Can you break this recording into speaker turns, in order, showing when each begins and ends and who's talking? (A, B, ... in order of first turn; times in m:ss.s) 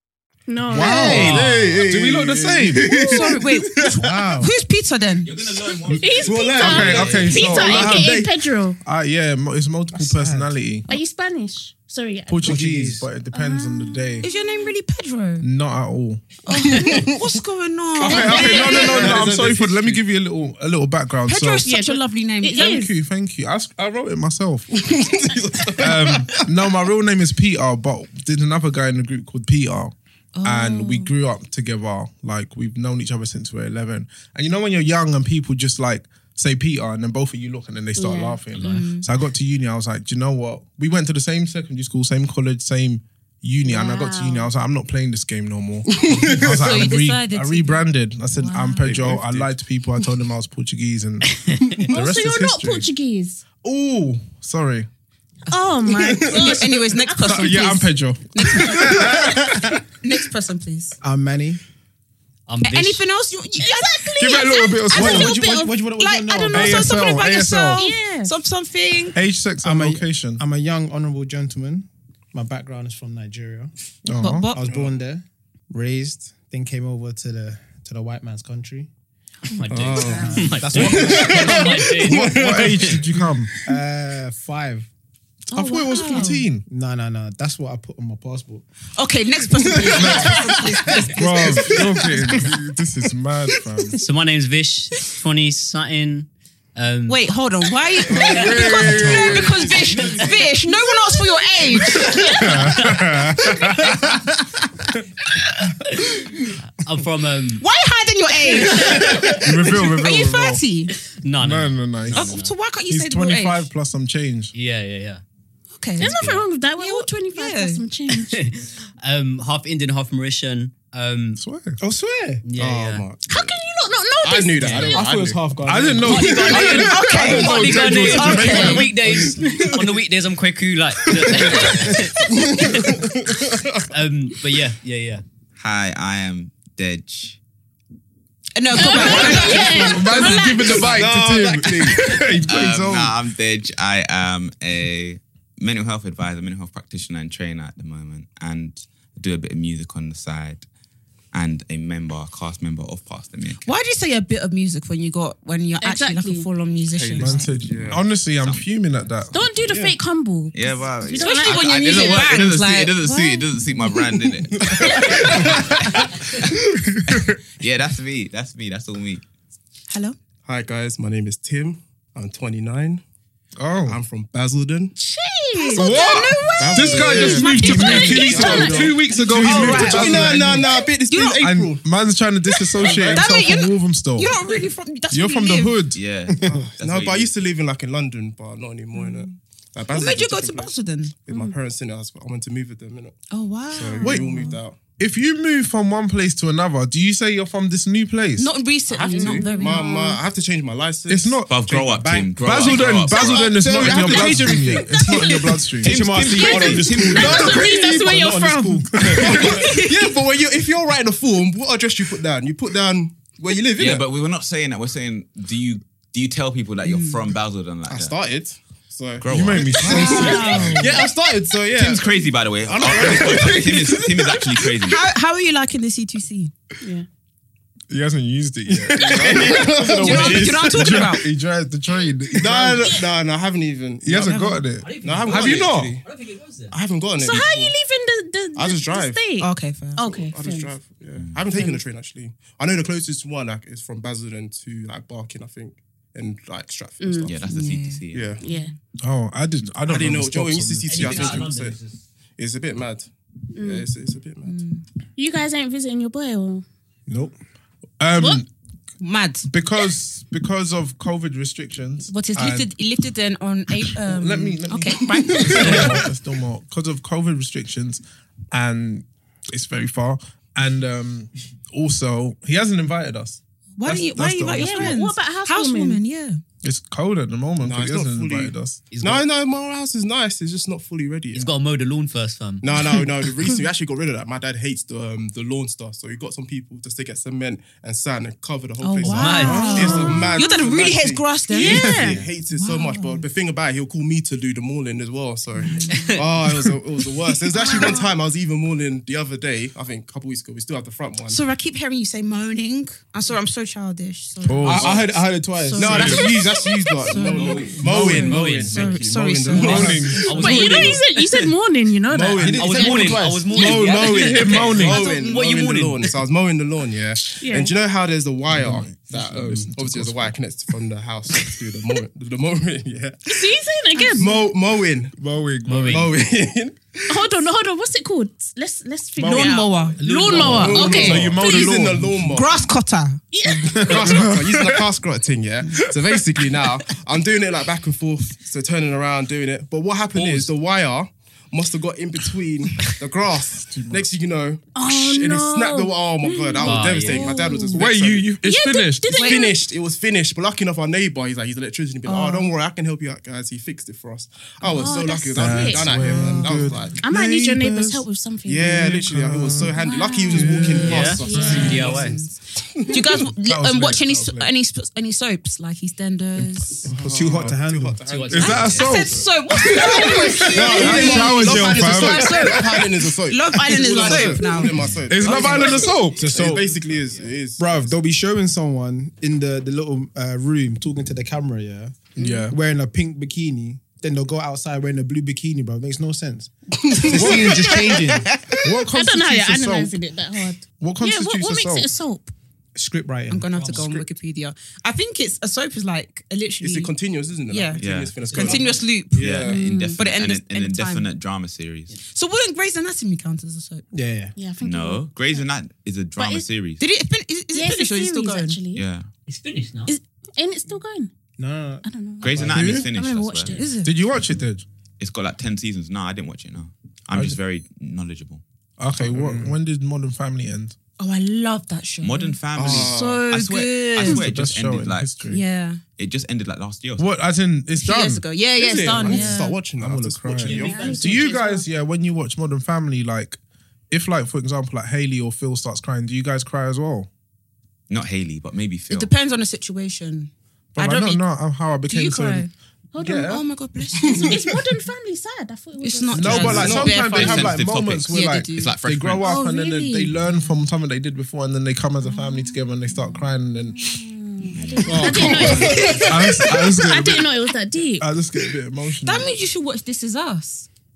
0:00.5-0:01.4 A
0:00.7-0:03.2 B
0:00.7-0:04.1 C
0:01.0-0:01.8 D
0:03.0-0:05.4 E
0:04.0-0:04.5 F
0:05.2-0:07.5 G
0:05.9-0:08.3 B
0:05.9-0:08.8 A
0:06.2-0:08.4 C
0:08.8-0:10.9 B
0:09.9-0:10.6 F
0:10.9-0:12.6 A
0:12.3-0:14.3 B
0:12.4-0:13.1 F
0:13.3-0:14.6 A
0:14.2-0:15.4 E
0:15.4-0:16.2 B
0:16.4-0:19.3 E
0:16.9-0:17.1 C
0:18.0-0:21.7 B
0:18.0-0:20.0 C
0:21.3-0:22.9 E
0:21.6-0:23.0 A
0:22.5-0:24.9 B
0:24.7-0:26.5 C
0:25.7-0:52.9 B
0:30.3-0:31.1 E
0:38.0-0:38.4 A
0:38.6-0:38.9 D
0:38.6-0:39.1 E
0:43.6-0:44.5 A
0:45.9-0:46.7 C
0:46.4-0:49.2 E
0:48.8-0:49.5 C
0:51.5-0:51.8 D
0:51.9-0:53.4 A
0:53.6-0:54.9 B
0:55.5-0:57.8 A
0:55.9-0:56.6 C
0:56.2-0:59.4 E
0:57.2-0:59.8 B
0:58.7-0:59.6 C
1:00.0-1:01.0 E
1:01.0-1:01.6 F
1:02.5-1:03.0 D
1:02.6-1:09.2 E
1:03.6-1:08.3 A
1:04.2-1:05.4 B
1:05.0-1:06.8 F
1:06.5-1:07.9 B
1:09.1-1:10.4 B
1:09.6-1:13.7 F
1:14.0-1:14.6 B
1:14.2-1:14.6 E
1:14.5-1:18.9 F
1:14.6-1:15.0 C
1:19.5-1:23.0 D
1:19.7-1:23.1 C
1:20.1-1:21.5 F
1:22.0-1:23.5 B
1:23.6-1:24.9 F
1:25.5-1:26.6 B
1:25.5-1:26.4 E
1:25.8-1:26.4 A
1:26.7-1:28.6 F
1:29.0-1:32.5 E
1:29.9-1:30.5 B
1:31.1-1:34.0 B
1:34.0-1:37.2 D
1:37.0-1:43.0 E
1:38.1-1:40.5 D
1:38.2-1:39.8 B
1:41.8-1:42.5 D
1:42.2-1:44.2 B
1:46.8-1:47.6 D
1:47.6-1:50.9 E
1:48.6-1:49.4 D
1:49.4-1:50.6 B
1:51.2-1:52.5 D
1:51.4-1:54.5 B
1:52.1-1:53.7 E
1:54.5-1:55.2 D
1:55.7-1:57.8 E
1:56.0-1:58.4 A
1:56.0-1:56.5 D
1:58.2-2:01.4 D
2:01.4-2:01.8 B
2:01.8-2:02.4 F
2:02.4-2:03.1 D
2:02.6-2:03.5 C
2:03.2-2:05.0 A
2:04.2-2:05.4 C
2:04.6-2:05.0 D
2:04.9-2:06.4 F
2:05.6-2:09.3 B
2:06.0-2:13.2 D
2:06.0-2:07.5 C
2:06.5-2:08.9 E
2:08.5-2:09.9 C
2:11.3-2:11.7 C
2:12.3-2:13.7 C
2:13.9-2:15.2 D
2:15.6-2:17.4 G
2:18.6-2:21.0 E
2:18.7-2:21.0 A
2:18.8-2:20.1 C
2:18.9-2:23.2 B
2:20.7-2:22.4 C
2:22.4-2:30.7 G
2:31.3-2:33.6 G
2:33.6-2:37.4 E
2:35.8-2:36.5 A
2:36.9-2:38.0 C
2:37.2-2:39.4 B
2:38.2-2:38.6 G
2:39.3-2:42.3 A
2:39.6-2:40.0 C
2:40.5-2:46.6 G
2:41.1-2:43.5 E
2:44.2-2:45.5 C
2:46.8-2:47.4 B
2:47.1-2:49.2 G
2:49.9-2:50.2 E
2:50.4-2:53.0 C
2:53.6-2:54.0 B
2:53.9-2:54.9 C
2:55.2-3:01.4 E
2:55.5-2:56.4 A
2:55.7-3:00.7 B
2:56.6-3:01.8 C
2:57.3-2:58.9 A
3:01.4-3:04.4 B
3:02.5-3:05.8 E
3:02.8-3:03.3 C
3:05.1-3:06.6 B
3:05.9-3:07.3 G
3:06.4-3:13.2 C
3:09.9-3:11.2 E
3:11.3-3:11.5 A
3:13.3-3:14.6 E
3:13.7-3:14.8 C
3:14.0-3:14.3 B
3:15.0-3:18.5 B
3:18.4-3:20.2 E
3:18.9-3:21.4 C
3:19.0-3:19.9 A
3:21.1-3:26.2 B
3:21.4-3:24.7 G
3:21.9-3:23.7 F
3:22.6-3:25.4 C
3:25.0-3:25.7 E
3:25.8-3:27.7 G
3:25.8-3:29.5 F
3:26.4-3:29.1 A
3:26.4-3:27.4 E
3:27.1-3:27.7 C
3:28.9-3:34.1 C
3:33.8-3:38.1 G
3:36.8-3:37.2 E
3:37.8-3:44.8 C
3:39.2-3:40.9 G
3:39.3-3:40.9 B
3:39.8-3:40.9 E
3:39.9-3:40.6 A
3:41.7-3:45.0 G
3:44.8-3:46.5 E
3:46.8-3:47.0 A
3:47.9-3:53.0 B
3:48.7-3:51.1 C
3:49.3-3:51.3 E
3:52.3-3:56.0 C
3:54.0-3:56.0 B
3:54.7-3:56.8 D
3:56.7-3:57.8 C
3:57.2-4:00.9 A
3:58.5-3:59.3 C
3:59.4-4:00.3 E
4:00.1-4:07.4 C
4:01.2-4:01.4 G
4:01.5-4:01.8 A
4:07.0-4:07.3 A
4:07.3-4:08.3 G
4:07.5-4:08.7 E
4:08.1-4:08.4 C
4:08.4-4:08.7 A
4:09.0-4:11.5 B
4:09.8-4:11.8 C
4:10.8-4:12.0 D
4:12.4-4:14.6 C
4:13.5-4:13.9 A
4:14.4-4:14.8 E
4:15.2-4:16.6 A
4:17.1-4:17.3 F
4:18.0-4:18.5 B
4:18.2-4:18.4 A
4:19.0-4:19.5 E
4:19.5-4:22.7 B
4:22.1-4:26.0 E
4:23.9-4:35.1 B
4:25.3-4:26.0 C
4:25.6-4:26.0 D
4:33.8-4:36.4 E
4:34.5-4:36.0 A
4:36.6-4:38.8 B
4:37.6-4:41.5 C
4:38.9-4:39.2 D
4:41.3-4:43.0 D
4:42.6-5:01.4 C
4:48.8-4:53.2 E
4:49.0-4:50.3 D
4:49.5-4:50.1 B
4:49.7-4:50.0 A
4:51.5-4:52.2 A
4:55.6-4:56.2 E
4:57.5-4:58.0 E
4:57.6-4:58.0 A
5:01.3-5:05.0 E
5:04.4-5:04.9 B
5:04.6-5:06.2 F
5:04.7-5:11.0 C
5:05.6-5:10.5 E
5:05.9-5:06.3 B
5:07.2-5:07.8 G
5:07.7-5:09.0 D
5:07.8-5:08.4 B
5:09.5-5:10.5 B
5:09.6-5:11.0 D
5:10.3-5:13.0 A
5:12.1-5:23.5 C
5:12.4-5:16.2 D
5:12.5-5:14.0 F
5:14.2-5:15.1 B
5:17.4-5:17.7 A
5:18.5-5:20.3 B
5:23.2-5:24.4 A
5:24.2-5:25.1 C
5:25.2-5:26.1 B
5:25.6-5:26.2 D
5:25.9-5:27.2 C
5:27.1-5:31.8 A
5:29.2-5:29.6 B
5:29.2-5:31.5 E
5:30.0-5:31.1 D
5:30.3-5:32.3 B
5:30.5-5:32.6 C
5:32.3-5:33.2 E
5:33.3-5:34.3 A
5:33.6-5:48.4 C
5:33.7-5:34.9 B
5:35.7-5:36.7 B
5:40.1-5:40.5 D
5:43.7-5:44.1 D
5:44.7-5:49.6 A
5:46.6-5:47.4 D
5:46.7-5:47.3 E
5:47.7-5:49.1 B
5:49.1-5:57.1 C
5:49.1-5:49.4 E
5:52.0-5:52.5 E
5:54.7-5:56.5 A
5:54.7-5:55.0 E
5:55.2-5:58.0 B
5:57.0-5:58.9 A
5:58.4-6:03.3 C
5:58.6-5:59.8 B
5:59.8-6:02.4 E
6:00.3-6:01.6 B
6:00.6-6:02.2 D
6:01.2-6:02.0 A
6:02.9-6:06.8 E
6:03.2-6:04.5 B
6:06.8-6:18.0 C
6:06.9-6:08.0 F
6:08.0-6:09.0 D
6:08.3-6:12.8 B
6:08.3-6:14.9 E
6:13.5-6:16.6 B
6:15.2-6:17.3 G
6:16.2-6:16.6 F
6:17.6-6:28.3 F
6:22.2-6:22.6 B
6:22.2-6:22.5 A
6:27.0-6:28.2 A
6:27.1-6:27.9 B
6:28.6-6:29.9 B
6:28.8-6:32.3 A
6:30.8-6:31.9 B
6:32.7-6:33.5 F
6:33.3-6:36.9 E
6:33.5-6:34.0 D
6:36.6-6:39.7 C
6:37.5-6:37.8 E
6:37.8-6:38.2 G
6:38.2-6:38.8 D
6:38.3-6:41.1 E
6:39.1-6:41.9 G
6:39.5-6:40.0 A
6:42.0-6:43.8 E
6:43.9-6:44.4 F
6:44.4-6:45.5 A
6:44.6-6:46.8 G
6:46.2-6:46.4 A
6:46.8-6:48.6 E
6:47.5-6:48.8 A
6:48.7-6:49.1 G
6:49.3-6:49.9 D
6:49.9-6:51.1 A
6:51.4-6:52.7 F
6:51.8-6:53.8 A
6:52.2-6:53.6 G
6:52.5-6:52.9 B
6:53.5-6:53.9 E
6:53.8-6:54.6 B
6:55.0-6:58.4 G
6:57.1-6:57.4 B
6:58.8-7:00.8 B
6:59.0-6:59.5 C
7:01.0-7:04.3 E
7:02.0-7:05.3 G
7:02.5-7:03.3 C
7:04.0-7:05.4 B
7:05.3-7:05.8 E
7:06.0-7:07.1 G
7:07.0-7:08.2 B
7:07.8-7:09.6 E
7:08.6-7:11.0 C
7:08.7-7:09.0 A
7:09.0-7:13.4 B
7:10.4-7:11.4 D
7:10.6-7:11.6 A
7:13.9-7:17.1 B
7:17.9-7:19.1 G
7:18.9-7:21.3 E
7:20.8-7:23.4 B
7:21.9-7:22.5 E
7:22.9-7:23.4 A
7:23.1-7:24.4 E
7:23.9-7:24.5 C
7:24.3-7:27.0 A
7:25.8-7:28.8 E
7:26.1-7:34.0 B
7:26.3-7:27.5 C
7:27.0-7:29.3 G
7:29.2-7:30.2 A
7:30.2-7:30.5 E
7:33.9-7:38.1 A
7:34.6-7:34.9 G
7:34.9-7:37.3 B
7:34.9-7:35.8 F
7:34.9-7:36.2 C
7:38.0-7:39.3 B
7:39.0-7:40.7 E